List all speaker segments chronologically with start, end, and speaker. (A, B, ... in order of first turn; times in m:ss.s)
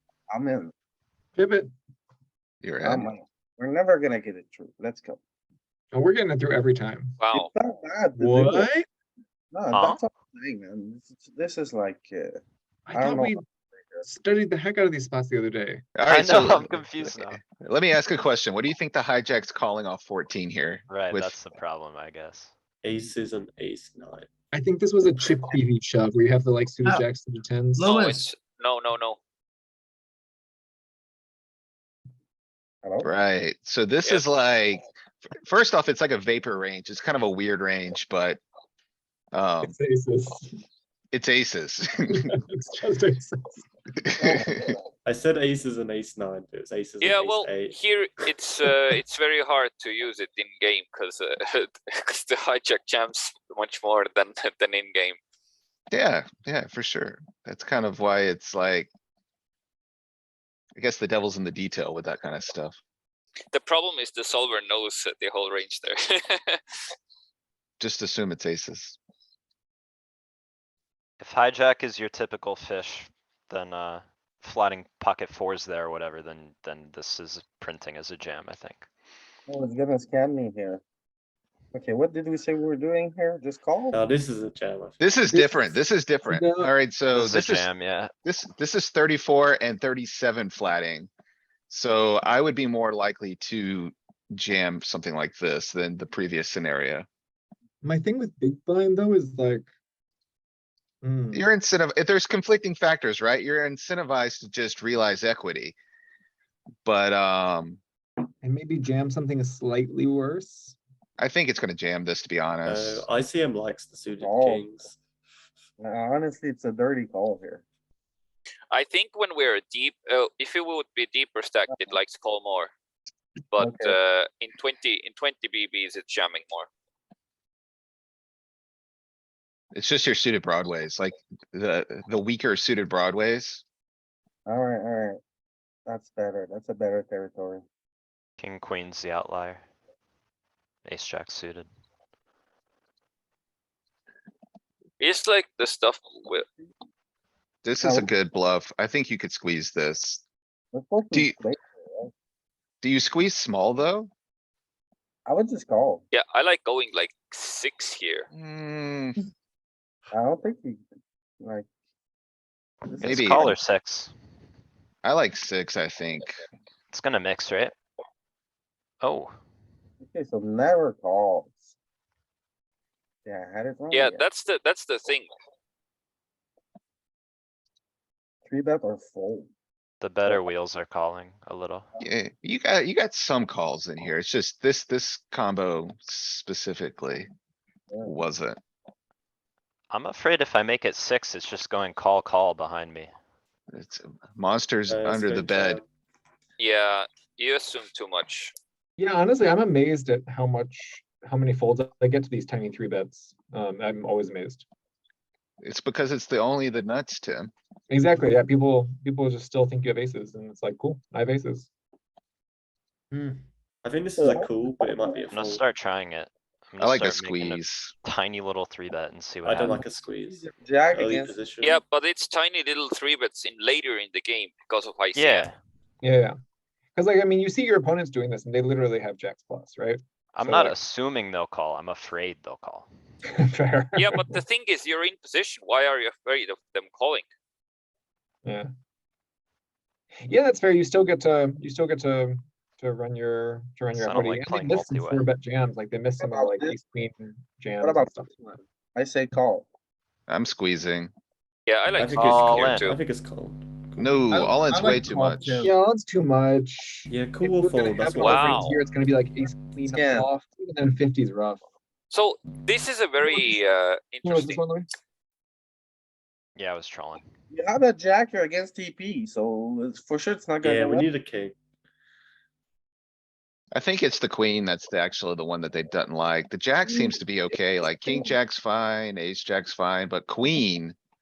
0:00.3-0:00.7 A
0:01.4-0:01.7 B
0:02.6-0:03.0 C
0:02.8-0:05.2 A
0:05.9-0:07.2 B
0:07.2-0:07.5 D
0:07.3-0:08.7 A
0:08.2-0:08.9 B
0:09.5-0:12.4 A
0:09.7-0:10.0 C
0:12.8-0:13.4 B
0:12.9-0:14.0 A
0:14.0-0:15.8 B
0:16.0-0:21.4 C
0:16.1-0:17.4 E
0:20.9-0:22.5 E
0:22.8-0:24.3 F
0:24.5-0:27.9 B
0:27.8-0:29.2 D
0:27.8-0:28.2 A
0:32.8-0:33.1 A
0:33.0-0:34.8 C
0:35.4-0:38.4 C
0:39.3-0:39.8 C
0:39.6-0:40.6 B
0:41.1-0:41.9 C
0:42.1-0:43.6 B
0:44.2-0:44.5 A
0:44.2-0:44.7 C
0:45.0-0:47.8 F
0:47.0-0:55.2 D
0:55.9-0:58.9 C
1:00.8-1:02.8 C
1:03.5-1:06.6 D
1:07.8-1:09.0 C
1:11.2-1:18.9 E
1:19.5-1:20.8 A
1:21.7-1:24.0 A
1:23.9-1:25.0 F
1:25.0-1:27.7 C
1:25.3-1:26.7 B
1:27.1-1:28.1 E
1:28.2-1:31.1 C
1:31.7-1:37.0 C
1:37.8-1:39.7 B
1:41.0-1:41.5 B
1:41.3-1:45.7 C
1:46.8-1:47.8 C
1:48.4-1:50.8 B
1:51.2-1:53.0 C
1:52.6-1:55.0 F
1:54.2-1:54.7 A
1:55.8-1:57.6 A
1:58.7-2:02.7 D
2:01.7-2:01.9 A
2:03.5-2:06.7 D
2:03.6-2:04.0 A
2:09.7-2:13.6 C
2:14.4-2:15.2 A
2:15.8-2:17.6 A
2:18.4-2:19.6 E
2:20.8-2:21.7 E
2:25.0-2:26.4 D
2:27.6-2:30.2 C
2:27.8-2:28.1 A
2:30.7-2:32.1 A
2:31.1-2:31.4 C
2:32.8-2:34.1 C
2:35.2-2:36.0 A
2:36.1-2:38.2 D
2:38.3-2:39.2 C
2:40.1-2:40.8 A
2:41.4-2:41.6 A
2:42.9-2:43.6 A
2:43.0-2:44.1 E
2:43.0-2:43.5 C
2:45.0-2:46.4 C
2:46.9-2:47.8 E
2:49.0-2:49.3 E
2:50.0-2:51.7 A
2:53.2-2:54.2 A
2:53.9-2:55.3 D
2:58.4-2:59.5 A
3:00.0-3:01.8 E
3:02.0-3:07.3 C
3:07.9-3:08.1 A
3:08.0-3:08.6 C
3:09.9-3:13.1 E
3:13.7-3:15.8 C
3:14.9-3:15.8 F
3:16.6-3:18.5 D
3:19.0-3:24.6 B
3:25.6-3:27.5 C
3:27.9-3:31.7 B
3:33.1-3:33.4 B
3:33.8-3:35.6 F
3:34.2-3:35.4 A
3:35.3-3:39.9 E
3:36.8-3:37.9 C
3:39.4-3:41.8 F
3:40.2-3:41.4 A
3:41.6-3:45.5 D
3:45.1-3:45.6 E
3:46.0-3:46.4 B
3:46.9-3:50.8 B
3:50.3-3:52.9 E
3:53.3-3:54.4 B
3:54.0-3:57.2 D
3:58.4-3:58.7 B
4:00.1-4:08.3 B
4:03.9-4:05.3 E
4:06.2-4:06.8 A
4:07.8-4:09.7 A
4:10.3-4:11.1 C
4:11.7-4:13.0 D
4:11.9-4:14.2 F
4:12.2-4:12.8 E
4:14.0-4:15.6 C
4:14.3-4:15.7 A
4:15.6-4:21.7 B
4:17.1-4:18.7 F
4:18.2-4:18.8 D
4:19.9-4:20.3 A
4:22.1-4:24.6 D
4:23.2-4:23.6 B
4:24.2-4:24.9 B
4:26.6-4:27.2 E
4:27.5-4:31.1 A
4:30.6-4:31.6 F
4:33.7-4:41.0 C
4:36.9-4:37.2 A
4:38.0-4:38.3 A